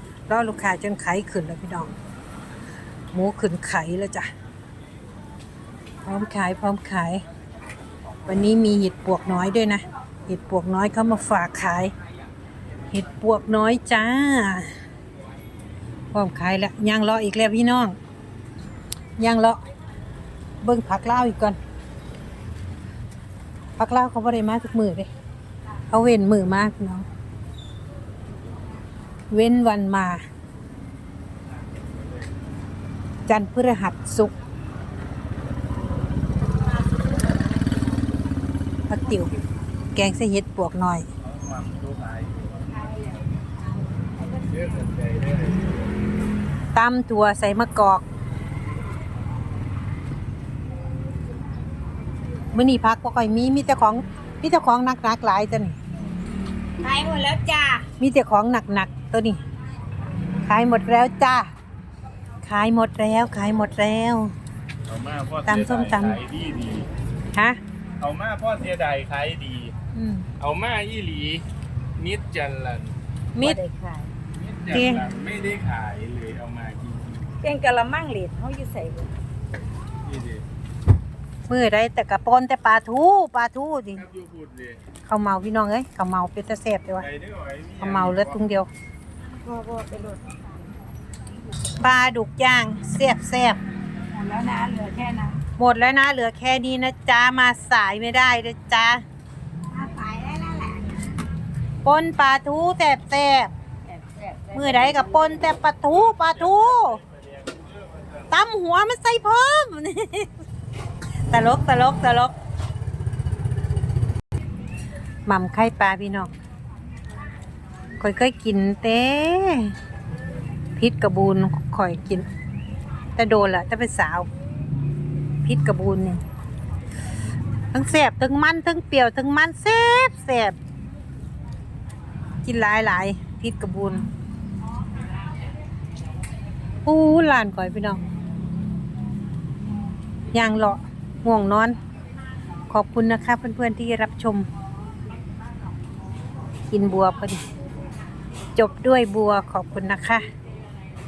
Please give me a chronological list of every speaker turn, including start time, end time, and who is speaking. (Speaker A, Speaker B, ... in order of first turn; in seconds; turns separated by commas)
Speaker A: 0.3-1.9, Speaker A: 3.1-4.3, Speaker A: 6.0-7.2, Speaker A: 8.2-11.9, Speaker A: 12.9-14.7, Speaker A: 16.1-18.0, Speaker A: 19.2-19.6, Speaker A: 20.6-21.6, Speaker A: 23.8-25.1, Speaker A: 25.9-27.1, Speaker A: 29.3-30.2, Speaker A: 33.3-34.3, Speaker A: 38.9-39.3, Speaker A: 39.9-41.1, Speaker B: 41.2-42.5, Speaker B: 44.3-45.7, Speaker A: 46.7-48.0, Speaker A: 52.5-55.8, Speaker C: 56.8-57.9, Speaker A: 58.0-59.4, Speaker A: 60.4-61.5, Speaker A: 62.4-64.3, Speaker B: 64.9-66.9, Speaker A: 65.5-66.2, Speaker A: 67.3-67.6, Speaker B: 68.0-69.7, Speaker A: 69.9-70.3, Speaker B: 70.4-71.5, Speaker B: 72.0-73.0, Speaker A: 73.3-73.6, Speaker C: 73.4-74.1, Speaker B: 74.3-77.3, Speaker A: 74.7-75.0, Speaker C: 77.4-79.1, Speaker B: 80.0-80.4, Speaker A: 81.5-84.0, Speaker B: 84.0-84.8, Speaker A: 85.0-87.1, Speaker B: 87.0-88.4, Speaker A: 87.8-88.7, Speaker C: 89.4-90.3, Speaker A: 91.8-93.6, Speaker C: 94.1-95.4, Speaker A: 95.6-99.0, Speaker C: 99.7-101.0, Speaker A: 101.8-103.5, Speaker C: 103.9-105.2, Speaker A: 104.5-107.0, Speaker B: 105.9-108.1, Speaker A: 108.3-110.3, Speaker A: 111.3-112.3, Speaker A: 115.2-116.3, Speaker A: 118.0-119.7, Speaker A: 120.8-122.2, Speaker A: 123.2-124.3, Speaker A: 125.4-126.2, Speaker A: 127.7-130.6, Speaker A: 132.4-134.1, Speaker A: 136.8-138.0, Speaker A: 140.3-141.8, Speaker A: 142.7-144.5, Speaker A: 146.7-147.4, Speaker A: 148.5-150.2